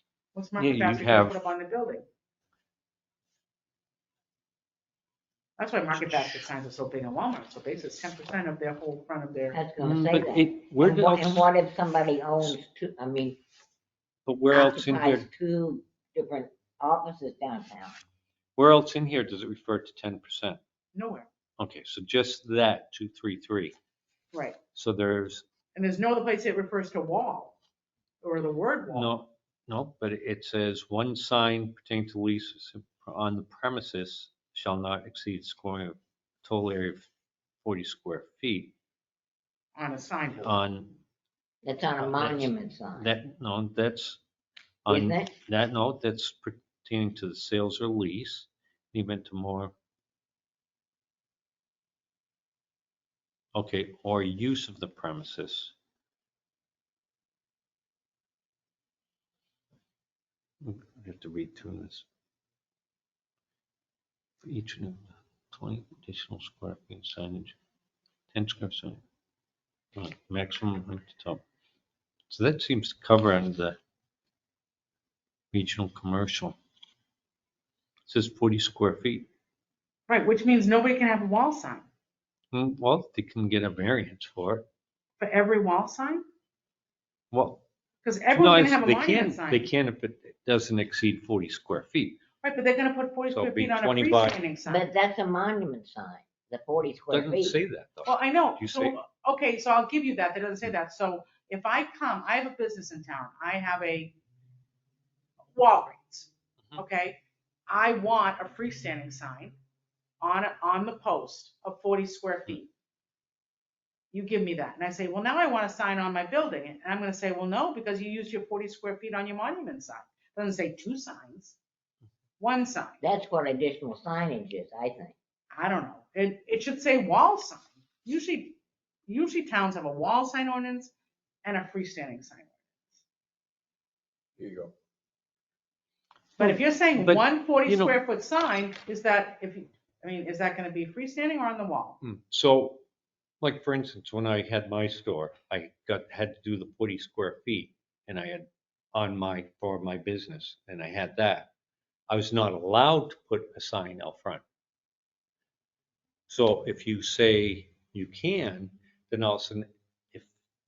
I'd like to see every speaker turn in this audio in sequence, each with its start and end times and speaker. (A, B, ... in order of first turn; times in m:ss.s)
0:00.3-0:02.0 A
0:00.6-0:01.4 B
0:05.6-0:09.6 A
0:05.9-0:06.4 B
0:09.5-0:13.4 C
0:09.8-0:11.5 B
0:14.2-0:15.3 B
0:14.5-0:18.0 C
0:18.6-0:20.6 B
0:21.0-0:21.3 A
0:21.6-0:23.8 B
0:24.3-0:24.6 A
0:24.7-0:25.4 B
0:25.8-0:27.5 A
0:28.2-0:29.1 A
0:28.9-0:37.1 B
0:37.6-0:38.7 B
0:39.7-0:40.6 A
0:40.4-0:41.0 B
0:41.6-0:43.1 C
0:42.0-0:44.2 B
0:44.8-0:49.7 B
0:44.9-0:45.4 C
0:53.5-0:55.7 B
1:00.6-1:02.0 B
1:04.4-1:07.6 B
1:08.3-1:09.0 B
1:09.9-1:11.4 B
1:12.3-1:13.8 B
1:15.5-1:16.6 B
1:18.1-1:19.3 B
1:20.1-1:21.9 A
1:22.5-1:24.7 B
1:25.2-1:26.2 A
1:27.3-1:27.6 B
1:28.0-1:29.7 A
1:28.3-1:32.2 B
1:32.4-1:34.9 A
1:33.3-1:34.4 B
1:34.7-1:37.6 C
1:37.1-1:39.0 B
1:38.0-1:44.1 A
1:45.5-1:49.6 A
1:50.2-1:52.7 A
1:54.1-2:01.6 A
2:02.4-2:03.0 A
2:03.0-2:05.1 C
2:05.5-2:10.9 A
2:11.4-2:12.6 A
2:14.4-2:14.7 B
2:16.4-2:22.0 A
2:16.4-2:18.0 B
2:22.0-2:22.8 B
2:23.4-2:31.5 B
2:32.1-2:34.4 B
2:36.3-2:40.3 B